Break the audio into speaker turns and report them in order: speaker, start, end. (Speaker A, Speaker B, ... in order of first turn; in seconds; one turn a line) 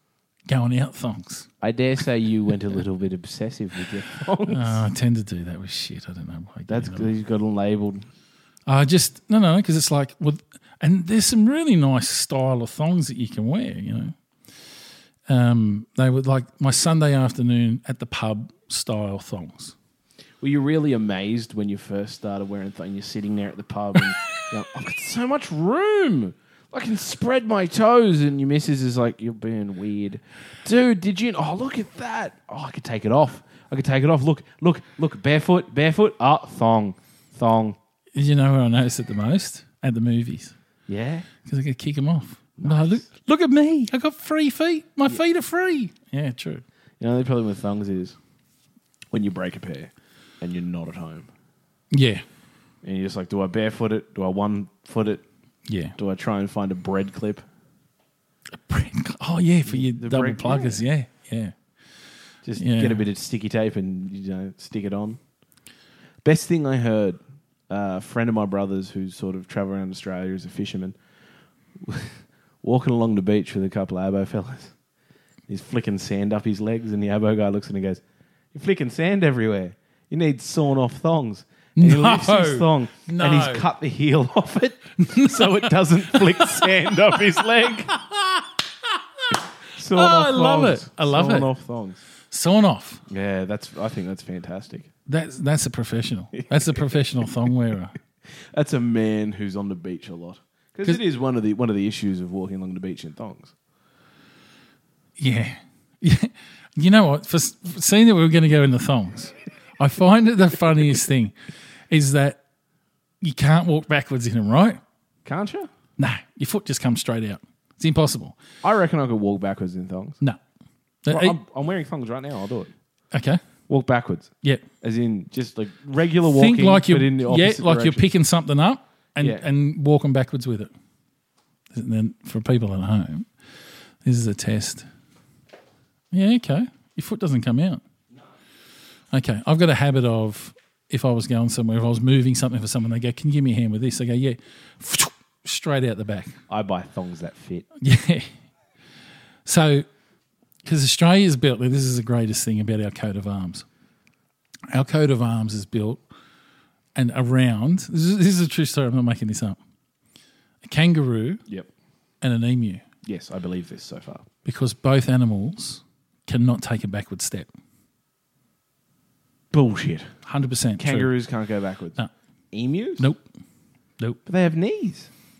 Speaker A: 0.5-1.5
Speaker B: 1.6-4.8
Speaker A: 4.5-7.1
Speaker B: 6.7-8.1
Speaker A: 8.7-14.2
Speaker A: 15.3-19.7
Speaker B: 20.4-37.8
Speaker A: 38.1-40.5
Speaker B: 40.9-41.3
Speaker A: 41.5-46.6
Speaker B: 42.6-43.0
Speaker B: 47.0-48.2
Speaker B: 49.1-51.3
Speaker A: 51.9-52.2
Speaker B: 52.8-55.2
Speaker A: 55.7-56.0
Speaker B: 56.0-57.4
Speaker A: 58.5-61.5
Speaker B: 59.7-60.8
Speaker B: 62.4-65.2
Speaker A: 62.6-63.0
Speaker B: 66.2-71.0
Speaker B: 71.9-74.8
Speaker B: 75.5-78.0
Speaker B: 78.5-87.9
Speaker A: 81.8-83.7
Speaker A: 85.0-87.2
Speaker A: 87.9-88.5
Speaker B: 89.7-92.0
Speaker A: 89.9-91.5
Speaker A: 92.3-93.0
Speaker B: 93.1-94.9
Speaker A: 95.1-98.0
Speaker B: 96.3-96.9
Speaker B: 98.5-103.5
Speaker A: 105.2-111.3
Speaker A: 111.9-112.4
Speaker A: 113.2-114.8
Speaker B: 115.2-115.7
Speaker A: 116.0-118.4
Speaker B: 118.6-120.2
Speaker A: 121.0-121.4
Speaker B: 121.1-122.7
Speaker A: 123.1-123.4
Speaker B: 123.7-124.3
Speaker B: 124.8-128.1
Speaker A: 126.2-130.7
Speaker B: 129.2-129.5
Speaker A: 131.7-133.3
Speaker A: 134.0-134.9
Speaker A: 136.1-137.8
Speaker A: 139.1-146.4
Speaker B: 146.5-147.7
Speaker A: 147.8-148.3
Speaker A: 149.4-149.9
Speaker A: 150.6-153.7
Speaker A: 154.7-156.0
Speaker A: 156.9-159.6
Speaker A: 160.6-161.4
Speaker A: 162.2-162.8
Speaker B: 163.1-164.3
Speaker A: 164.4-167.5
Speaker B: 169.5-170.1
Speaker A: 170.2-171.1
Speaker B: 170.8-172.0
Speaker B: 172.5-173.1
Speaker A: 173.0-173.2
Speaker B: 174.3-175.1